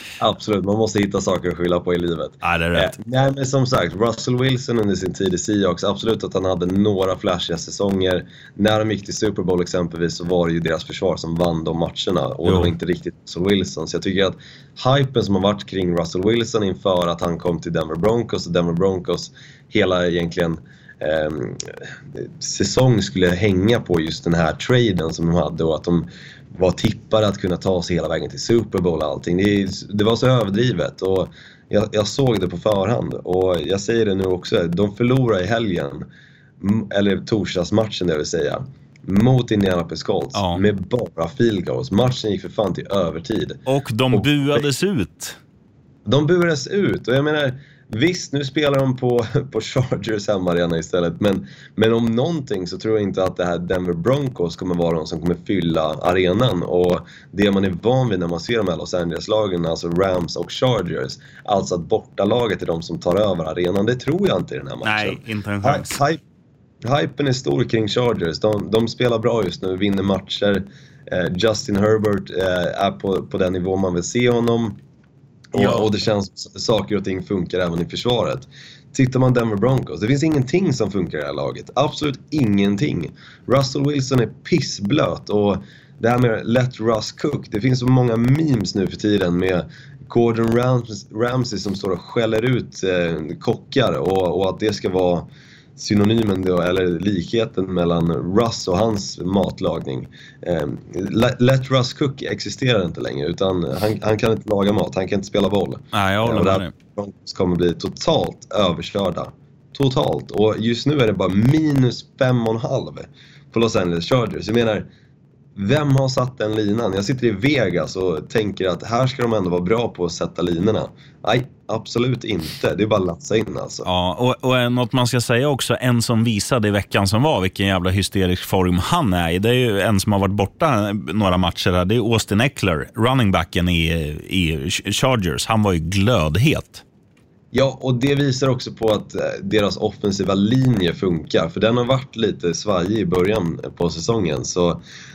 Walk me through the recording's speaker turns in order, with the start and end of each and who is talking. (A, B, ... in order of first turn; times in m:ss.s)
0:00.2-0:36.1 A
0:02.4-0:03.0 B
0:12.4-0:12.7 B
0:36.6-0:43.6 A
0:40.3-0:40.6 B
0:43.6-0:45.4 B
0:44.1-0:44.6 A
0:46.0-1:06.2 A
1:04.8-1:06.0 B
1:06.8-1:14.8 A
1:15.5-1:15.9 B
1:15.5-1:54.9 A
1:45.9-1:46.7 B
1:55.6-2:03.8 A
2:03.8-2:16.8 B
2:17.5-2:24.8 A